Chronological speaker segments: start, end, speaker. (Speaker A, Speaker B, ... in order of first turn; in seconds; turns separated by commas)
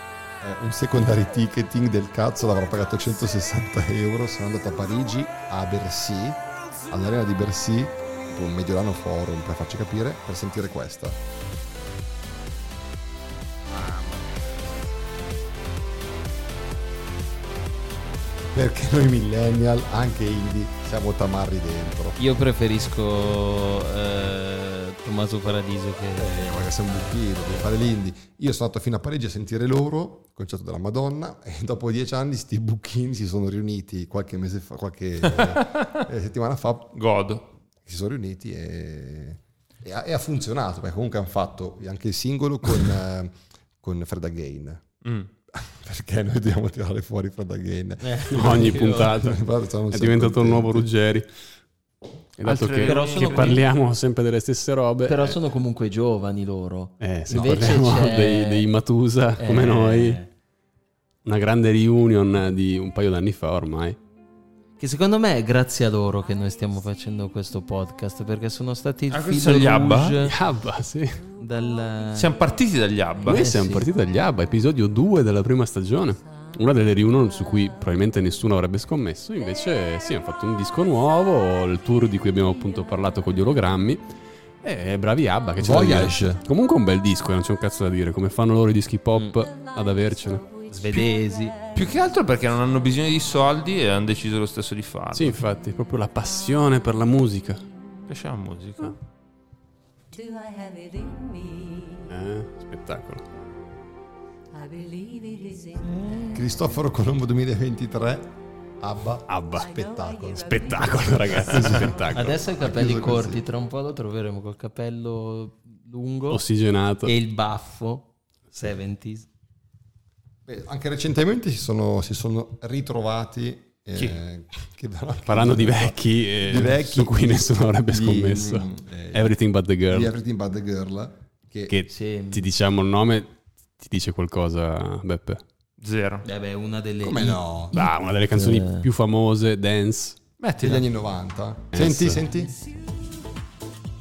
Speaker A: 0.4-11.2, Speaker A: 18.5-22.2, Speaker B: 22.2-26.4, Speaker A: 26.2-37.0, Speaker C: 35.3-36.0, Speaker C: 37.0-37.5, Speaker A: 37.8-44.9, Speaker C: 45.0-45.3, Speaker A: 45.5-50.9, Speaker B: 48.0-49.1, Speaker D: 48.3-51.3, Speaker D: 52.4-55.4, Speaker C: 52.4-53.7, Speaker B: 52.8-53.6, Speaker B: 55.1-58.7, Speaker D: 57.0-60.2, Speaker A: 57.3-57.6, Speaker B: 59.4-60.3, Speaker D: 61.2-64.0, Speaker B: 64.8-70.4, Speaker C: 69.1-70.2, Speaker D: 70.2-71.3, Speaker B: 71.3-72.3, Speaker C: 72.2-73.5, Speaker B: 73.2-73.9, Speaker D: 73.2-84.0, Speaker D: 84.6-91.0, Speaker A: 85.6-86.4, Speaker B: 90.7-91.6, Speaker C: 91.7-95.4, Speaker D: 95.1-97.6, Speaker C: 98.1-99.0, Speaker E: 100.3-102.0, Speaker D: 102.1-103.2, Speaker E: 104.7-105.6, Speaker B: 105.8-106.3, Speaker A: 106.3-113.4, Speaker D: 109.3-109.8, Speaker D: 110.4-112.4, Speaker B: 112.1-116.4, Speaker D: 116.3-117.1, Speaker B: 117.0-119.3, Speaker A: 120.5-129.4, Speaker D: 125.3-130.1, Speaker A: 129.9-131.8, Speaker D: 131.7-135.4, Speaker B: 131.9-132.5, Speaker C: 135.8-136.2, Speaker B: 136.2-138.9, Speaker A: 137.0-137.9, Speaker D: 137.7-140.2, Speaker C: 140.4-140.8, Speaker A: 140.6-142.5, Speaker D: 141.7-142.2